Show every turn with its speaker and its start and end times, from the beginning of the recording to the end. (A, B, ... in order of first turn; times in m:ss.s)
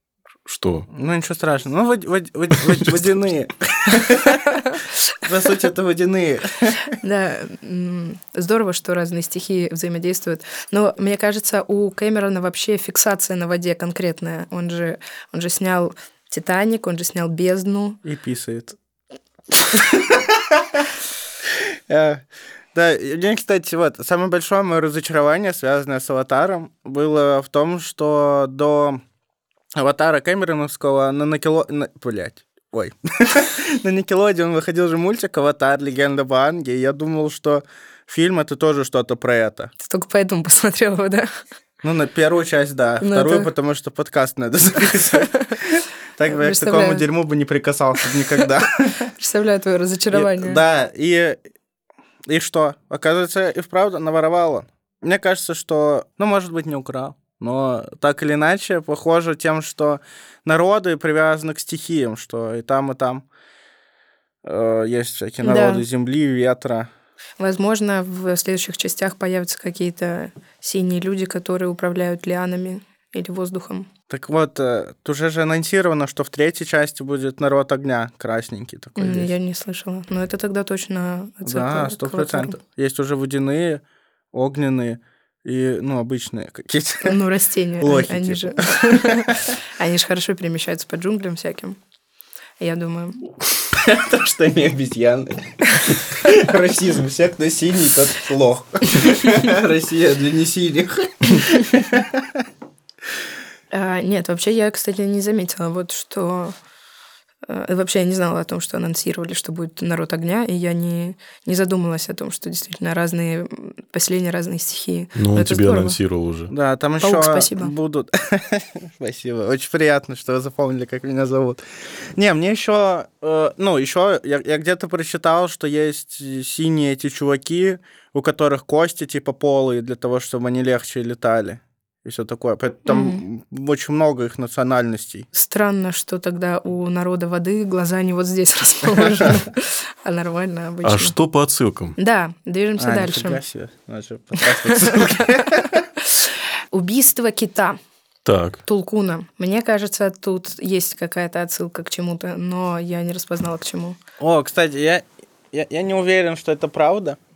0:00.5-0:00.9 A
0:00.9-0:06.9 B
0:04.5-0:04.8 C
0:07.0-0:18.0 C
0:18.0-0:18.8 B
0:19.8-0:20.8 B
0:21.5-0:29.0 B
0:29.8-0:39.7 B
0:39.8-0:41.3 C
0:41.8-0:49.1 B
0:43.0-0:43.5 C
0:45.1-0:45.6 C
0:46.3-0:47.1 C
0:49.2-0:50.6 C
0:50.1-0:51.4 B
0:52.3-1:03.3 B
1:04.4-1:06.9 B
1:05.4-1:05.8 C
1:07.4-1:13.9 C
1:14.1-1:19.3 B
1:19.0-1:22.6 C
1:21.5-1:27.2 B
1:27.0-1:31.8 C
1:27.8-1:29.4 B
1:32.6-1:33.2 C
1:33.7-1:42.4 B
1:43.7-1:46.6 C
1:47.5-1:56.0 C
1:55.2-1:56.5 A
1:56.5-2:01.6 B
1:57.0-1:57.7 C
2:02.2-2:15.3 B
2:12.9-2:13.2 C
2:15.3-2:21.2 C
2:20.8-2:22.0 A
2:22.0-2:23.4 C
2:22.8-2:25.8 B
2:24.5-2:27.8 C
2:28.2-2:28.6 A
2:28.6-2:34.0 C
2:34.2-2:37.2 B